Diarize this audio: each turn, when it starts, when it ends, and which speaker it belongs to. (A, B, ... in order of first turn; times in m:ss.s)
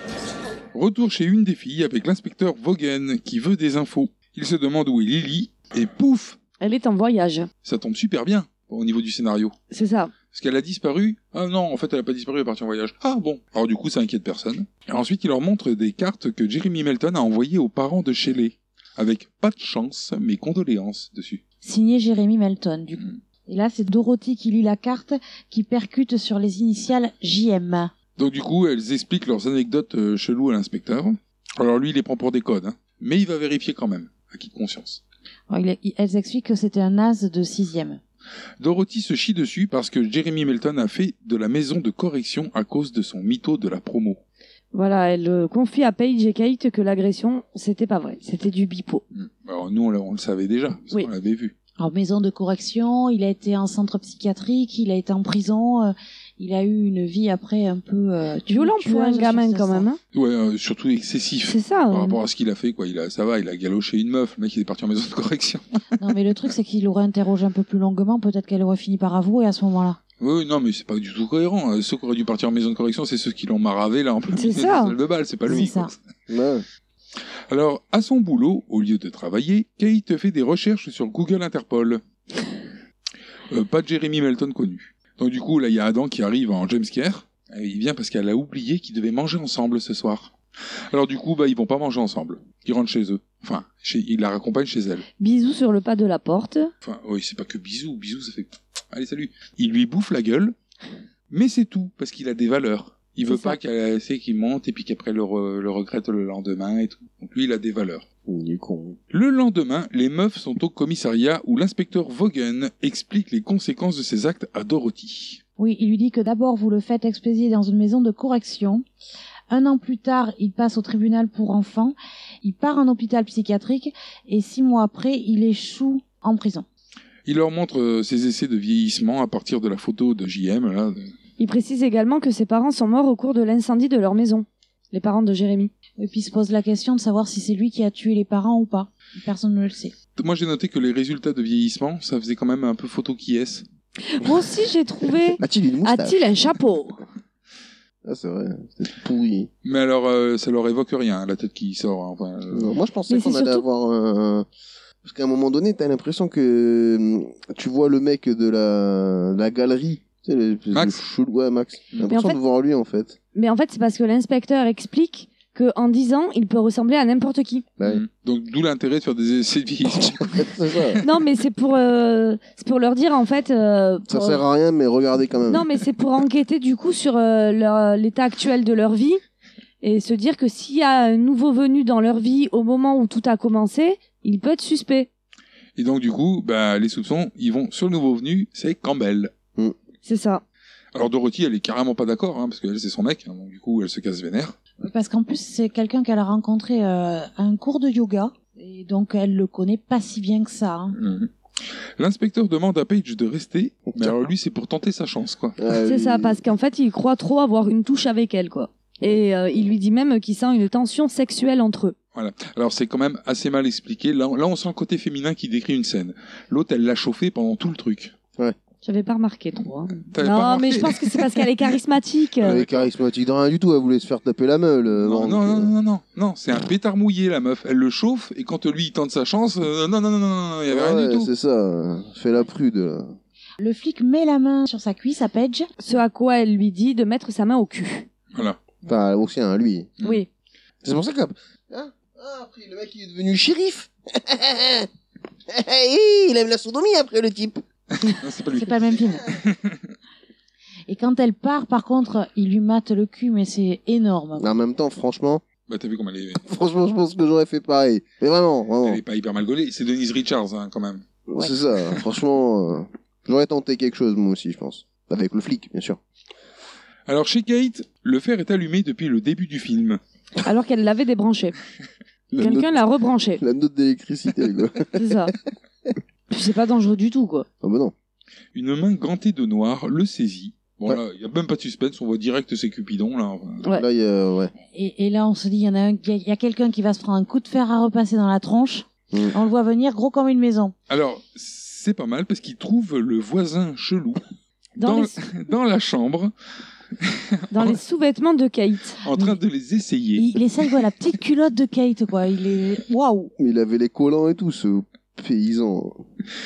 0:00.7-0:06.4 A
0:06.6-0:07.5 B
0:07.6-0:09.5 A
0:09.7-0:10.1 B
0:10.3-0:21.4 A
0:21.6-0:27.9 C
0:28.2-0:35.0 A
0:35.5-0:38.0 C
0:38.6-0:44.2 A
0:44.7-0:49.0 B
0:49.1-0:51.5 A
0:51.8-0:59.9 C
0:58.5-1:00.0 B
1:00.1-1:05.6 A
1:01.5-1:02.2 B
1:06.0-1:10.0 C
1:10.2-1:16.0 A
1:14.3-1:14.9 B
1:15.5-1:15.9 C
1:16.3-1:16.6 D
1:17.5-1:22.0 A
1:23.5-1:30.3 A
1:30.9-1:35.0 A
1:35.2-1:36.7 B
1:36.8-1:40.5 A
1:41.3-1:48.0 A
1:43.3-1:43.6 B
1:48.2-1:49.0 D
1:49.1-1:55.4 A
1:55.6-1:58.8 C
1:59.5-2:06.6 C
2:07.2-2:11.1 A
2:11.4-2:15.7 B
2:16.0-2:19.9 C
2:20.2-2:23.6 A
2:24.0-2:27.0 B
2:25.4-2:26.3 D
2:28.0-2:29.5 D
2:29.6-2:32.7 A
2:32.5-2:34.4 D
2:33.1-2:33.6 B
2:35.0-2:43.2 D
2:40.7-2:41.0 A
2:42.1-2:42.4 B
2:43.3-2:47.6 B
2:47.8-2:51.0 A
2:50.2-2:51.0 D
2:51.0-2:54.4 B
2:54.1-2:55.7 D
2:55.5-2:59.2 B
2:59.8-3:05.1 B
3:05.8-3:09.3 A
3:10.0-3:10.4 B
3:10.9-3:14.5 A
3:14.8-3:20.9 C
3:20.9-3:21.3 A
3:22.0-3:25.6 A
3:23.9-3:24.2 D
3:25.6-3:26.4 D
3:25.8-3:31.9 B
3:32.1-3:38.1 A
3:38.8-3:42.6 B
3:40.1-3:41.4 A
3:42.4-3:42.9 A
3:42.4-3:45.7 D
3:45.0-3:51.3 A
3:50.7-3:53.2 D
3:53.6-3:55.7 C
3:55.8-3:58.1 B
3:58.3-3:58.6 A
3:58.8-3:59.9 D
4:00.0-4:00.2 A
4:00.8-4:04.9 D
4:05.5-4:07.6 D
4:08.0-4:08.8 A
4:08.5-4:09.4 C
4:09.4-4:09.8 A
4:10.9-4:14.5 C
4:14.4-4:15.4 D
4:15.7-4:16.4 A
4:16.4-4:19.0 D
4:18.8-4:21.0 A
4:21.3-4:26.0 D
4:27.1-4:30.0 A
4:30.4-4:31.5 B
4:32.3-4:32.8 D
4:32.4-4:33.4 B
4:33.4-4:35.3 D
4:34.9-4:35.3 B
4:36.3-4:37.5 B
4:37.6-4:37.9 D
4:38.5-4:43.6 A
4:43.7-4:44.5 D
4:44.7-4:50.7 C
4:50.9-4:54.2 A
4:54.8-4:55.2 B
4:54.8-4:56.3 A
4:57.0-4:57.8 A
4:57.5-4:59.0 B
4:59.0-5:00.3 A
4:59.1-4:59.4 C
5:00.2-5:03.3 C
5:03.4-5:06.0 D